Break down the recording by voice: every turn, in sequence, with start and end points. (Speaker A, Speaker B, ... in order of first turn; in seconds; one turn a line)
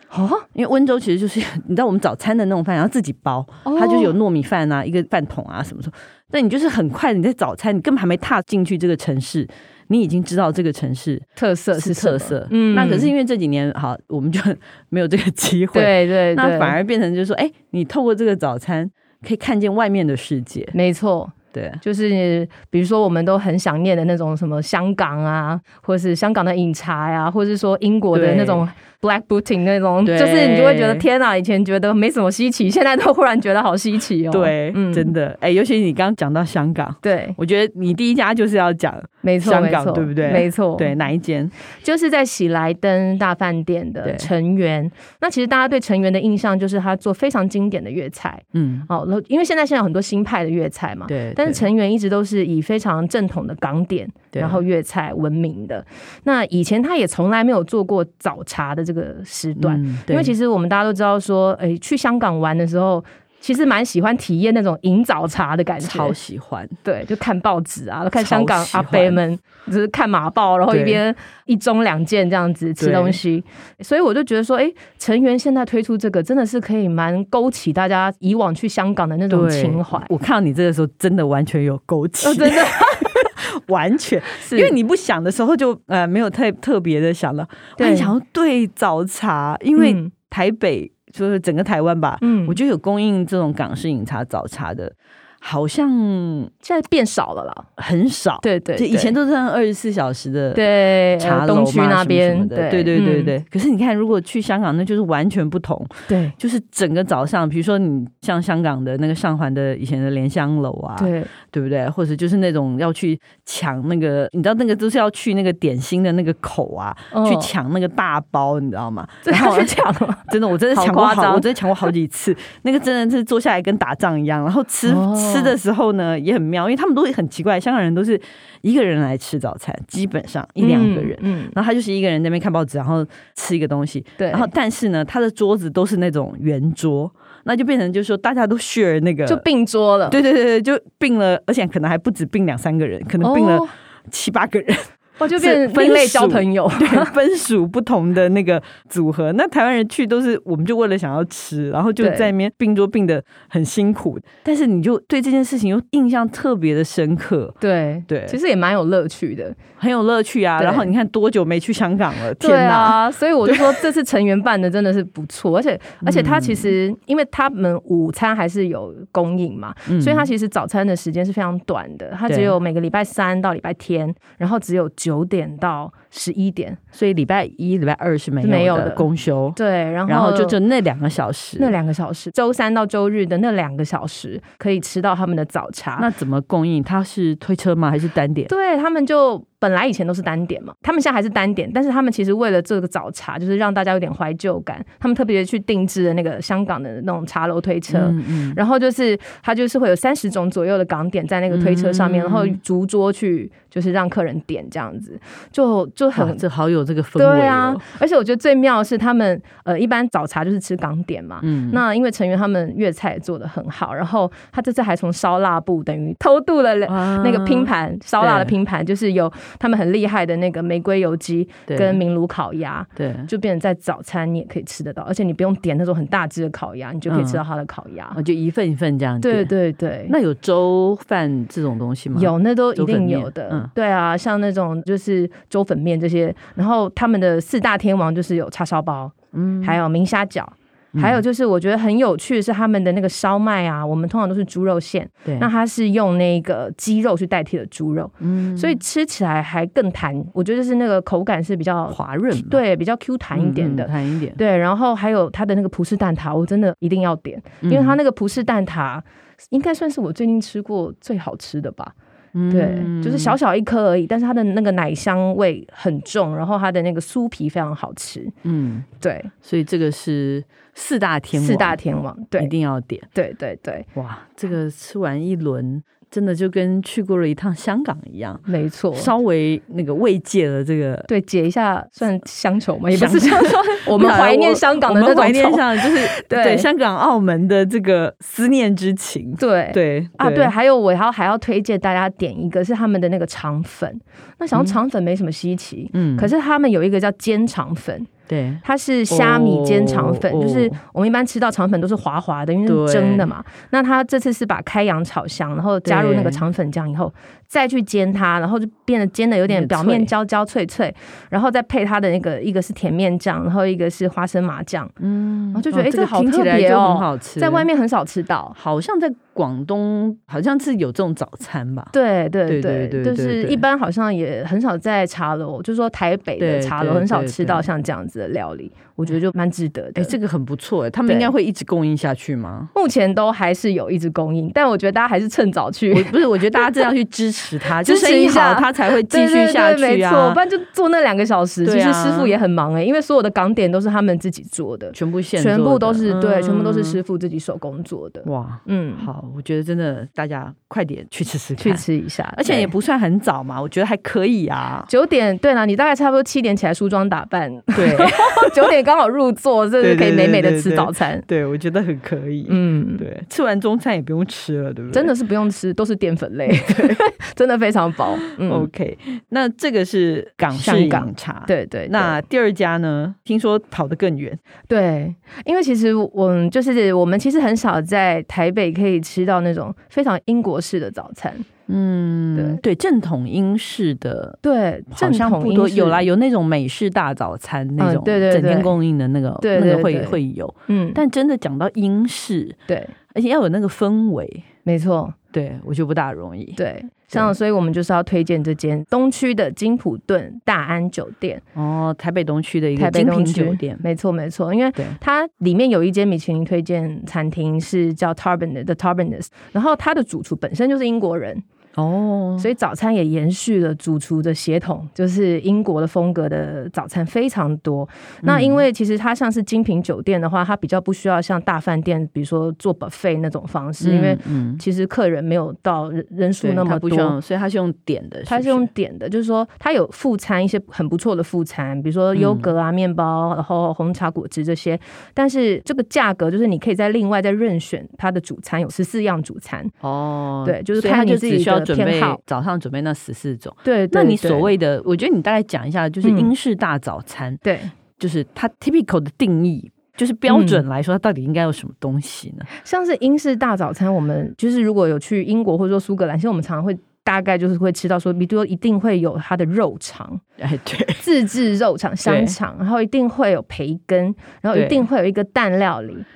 Speaker A: 0.1-0.5
Speaker B: 0.5-20.8
Speaker A: 3.6-4.2
Speaker A: 11.4-13.1
Speaker A: 15.7-16.8
Speaker A: 20.7-35.1
Speaker B: 21.5-21.8
Speaker B: 28.1-28.7
Speaker B: 30.0-31.1
Speaker B: 34.3-41.5
Speaker A: 37.0-37.4
Speaker A: 39.2-40.9
Speaker A: 41.8-66.2
Speaker B: 44.0-44.3
Speaker B: 48.5-48.9
Speaker B: 51.1-51.6
Speaker B: 54.3-54.6
Speaker B: 59.6-60.3
Speaker B: 65.8-66.8
Speaker A: 66.8-80.1
Speaker B: 68.2-69.2
Speaker B: 70.7-71.0
Speaker B: 72.8-73.2
Speaker B: 79.3-96.5
Speaker A: 82.2-83.3
Speaker A: 84.4-84.8
Speaker A: 87.8-88.1
Speaker A: 89.8-90.1
Speaker A: 92.2-92.6
Speaker A: 96.6-97.7
Speaker B: 97.8-119.8
Speaker A: 98.4-99.2
Speaker A: 100.5-103.3
Speaker A: 106.1-106.4
Speaker A: 111.0-111.3
Speaker A: 117.1-117.5
Speaker A: 119.2-121.9
Speaker B: 120.3-139.4
Speaker A: 124.9-125.6
Speaker A: 130.6-131.5
Speaker A: 134.2-134.5
Speaker A: 139.3-140.2
Speaker B: 140.1-158.4
Speaker A: 143.2-143.7
Speaker A: 145.2-147.1
Speaker A: 152.0-152.3
Speaker A: 157.6-159.6
Speaker B: 159.8-163.8
Speaker A: 160.6-160.9
Speaker A: 162.4-176.8
Speaker B: 166.0-166.7
Speaker B: 169.9-170.3
Speaker B: 172.3-172.6
Speaker B: 176.9-181.8
Speaker A: 178.4-180.6
Speaker A: 181.6-186.1
Speaker B: 186.0-188.5
Speaker A: 188.5-206.4
Speaker B: 197.9-198.6
Speaker B: 201.5-202.6
Speaker B: 206.2-207.8
Speaker A: 207.2-228.2
Speaker B: 211.4-211.8
Speaker B: 216.9-218.6
Speaker B: 221.7-222.0
Speaker B: 223.0-223.3
Speaker B: 227.1-227.4
Speaker B: 228.1-229.5
Speaker A: 229.2-230.2
Speaker B: 230.1-233.7
Speaker A: 232.1-261.9
Speaker B: 239.3-239.8
Speaker B: 240.9-241.2
Speaker B: 248.2-248.8
Speaker B: 251.9-252.6
Speaker B: 253.3-254.4
Speaker B: 257.6-258.0
Speaker B: 262.3-263.4
Speaker A: 262.5-268.4
Speaker B: 268.4-268.9
Speaker A: 269.0-269.3
Speaker B: 269.4-271.8
Speaker A: 271.3-272.5
Speaker B: 272.4-273.1
Speaker A: 273.1-273.9
Speaker B: 273.9-281.1
Speaker A: 278.5-279.1
Speaker A: 281.1-286.7
Speaker B: 282.9-290.5
Speaker A: 289.4-298.1
Speaker B: 295.9-296.3
Speaker B: 298.3-300.8
Speaker A: 298.6-314.9
Speaker B: 302.6-303.3
Speaker B: 305.9-306.4
Speaker B: 309.5-310.1
Speaker B: 315.0-317.7
Speaker A: 315.5-318.6
Speaker B: 318.6-321.9
Speaker A: 321.9-330.1
Speaker B: 322.5-323.6
Speaker B: 326.4-327.7
Speaker B: 330.0-332.7
Speaker A: 331.1-331.3
Speaker A: 332.7-336.9
Speaker B: 335.9-340.4
Speaker A: 337.6-349.1
Speaker B: 341.6-342.4
Speaker B: 344.9-347.0
Speaker B: 348.2-351.8
Speaker A: 351.6-352.7
Speaker B: 352.4-354.9
Speaker A: 354.9-361.3
Speaker B: 357.8-358.6
Speaker B: 359.8-365.1
Speaker A: 362.5-363.1
Speaker A: 364.9-368.7
Speaker B: 366.7-367.0
Speaker B: 368.3-374.4
Speaker A: 370.5-372.2
Speaker A: 374.7-381.5
Speaker B: 381.7-384.4
Speaker A: 382.4-382.6
Speaker A: 384.4-386.1
Speaker B: 384.9-392.6
Speaker A: 387.8-388.7
Speaker A: 389.4-391.0
Speaker A: 392.7-392.9
Speaker B: 393.1-394.5
Speaker A: 394.6-395.2
Speaker B: 395.3-396.6
Speaker A: 396.6-401.4
Speaker B: 401.6-403.8
Speaker A: 402.8-411.4
Speaker B: 411.8-412.5
Speaker A: 412.4-427.2
Speaker B: 418.2-418.6
Speaker B: 423.8-424.6
Speaker B: 426.4-428.7
Speaker A: 428.3-439.7
Speaker B: 432.1-432.5
Speaker B: 439.8-447.4
Speaker A: 440.4-442.2
Speaker A: 443.6-444.5
Speaker A: 446.0-446.3
Speaker A: 447.4-447.7
Speaker B: 448.0-452.5
Speaker A: 450.3-450.6
Speaker A: 452.6-460.2
Speaker B: 460.4-461.0
Speaker A: 461.0-466.1
Speaker B: 462.0-462.4
Speaker B: 464.5-464.8